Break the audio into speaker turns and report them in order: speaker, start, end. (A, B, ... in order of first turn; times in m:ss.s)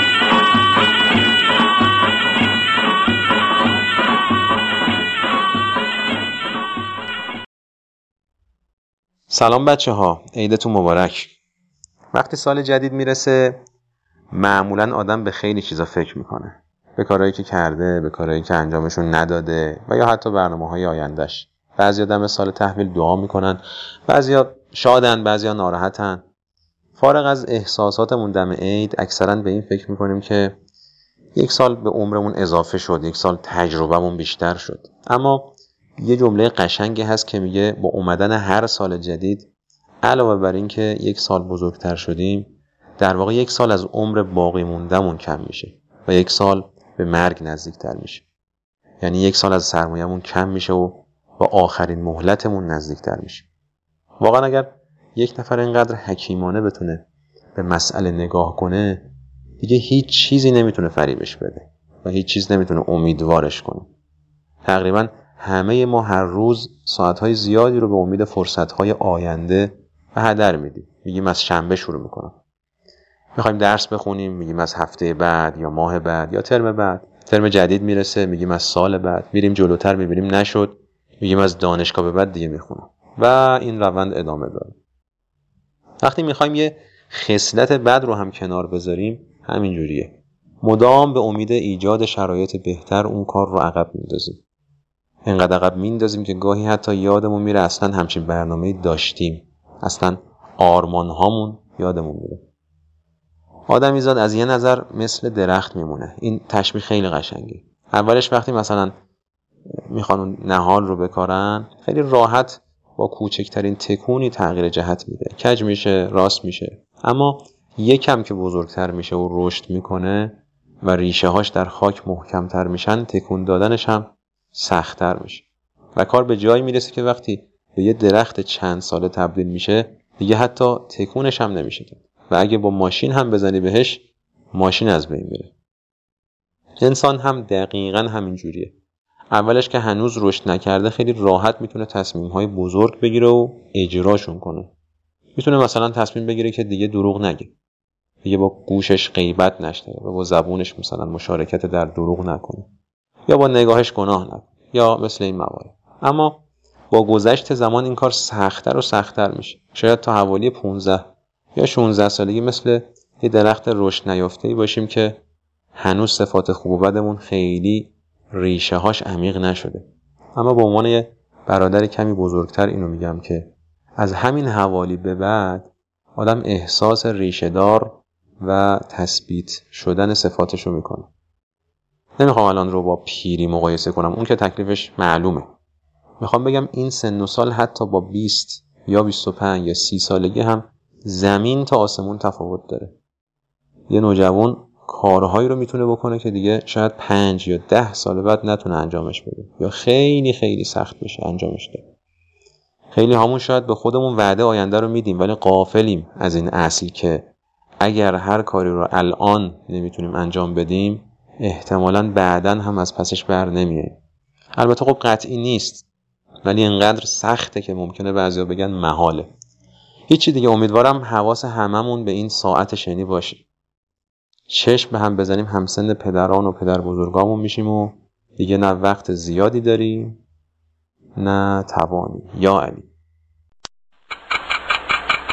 0:09.3-0:11.3 A
0:12.1-0:13.6 A
0:14.3-0:26.2 A
0:27.0-0:30.6 A
0:31.3-0:39.5 A
0:40.0-0:48.2 A
0:49.0-0:53.5 A
0:54.2-1:03.9 A
1:04.6-1:12.4 A
1:13.3-1:24.8 A
1:26.0-1:34.4 A
1:35.2-1:42.4 A
1:43.7-1:48.9 A
1:49.9-2:15.5 A
2:16.8-2:18.7 A
2:19.3-2:24.7 A
2:25.4-2:27.5 A
2:28.2-2:32.7 A
2:33.3-2:45.2 A
2:45.8-3:01.1 A
3:02.2-3:05.5 A
3:06.2-3:13.0 A
3:13.9-3:21.9 A
3:22.9-3:27.3 A
3:27.8-3:34.0 A
3:34.6-3:35.8 A
3:36.4-3:39.3 A
3:40.1-3:43.4 A
3:44.5-3:50.2 A
3:51.2-3:52.9 A